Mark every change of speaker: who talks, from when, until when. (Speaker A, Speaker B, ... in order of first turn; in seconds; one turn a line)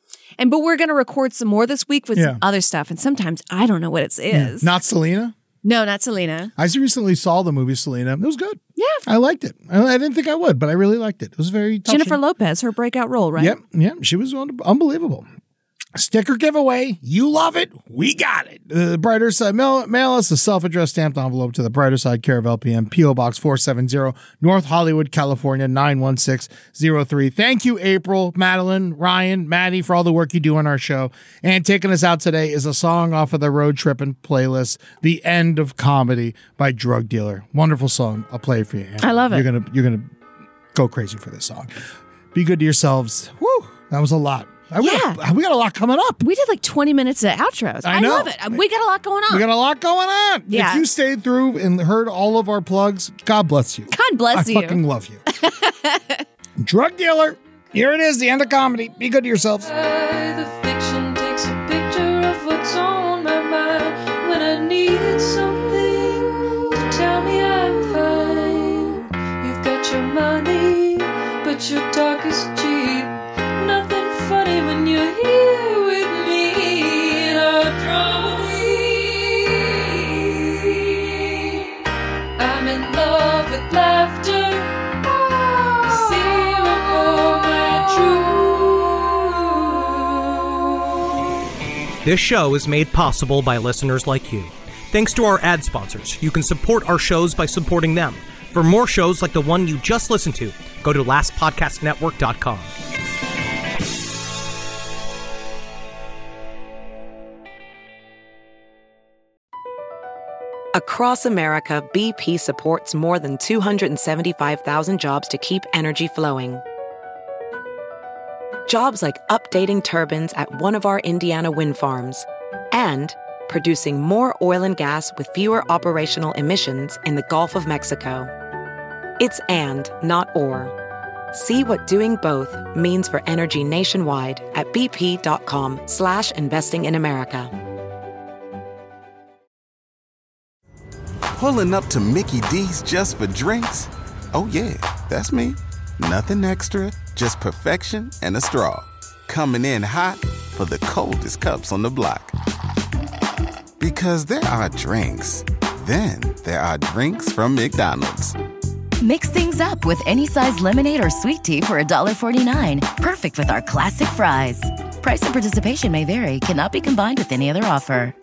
Speaker A: 0.4-4.7
Speaker B: 4.3-5.3
Speaker A: 5.6-6.5
Speaker B: 6.6-12.2
Speaker A: 8.8-9.0
Speaker A: 11.9-13.6
Speaker B: 13.3-15.3
Speaker B: 15.9-40.1
Speaker A: 39.0-39.4
Speaker B: 40.7-41.7
Speaker B: 42.3-46.2
Speaker A: 44.8-45.2
Speaker A: 46.2-49.4
Speaker B: 47.8-48.6
Speaker B: 49.3-55.2
Speaker A: 50.5-50.8
Speaker A: 53.9-56.2
Speaker B: 56.6-59.7
Speaker C: 59.6-81.6
Speaker C: 82.4-90.7
Speaker D: 92.0-102.7
Speaker E: 110.7-116.6
Speaker E: 118.7-128.3
Speaker E: 129.2-130.7
Speaker E: 131.3-137.5
Speaker F: 141.3-152.3
Speaker F: 153.8-158.3
Speaker G: 159.0-168.1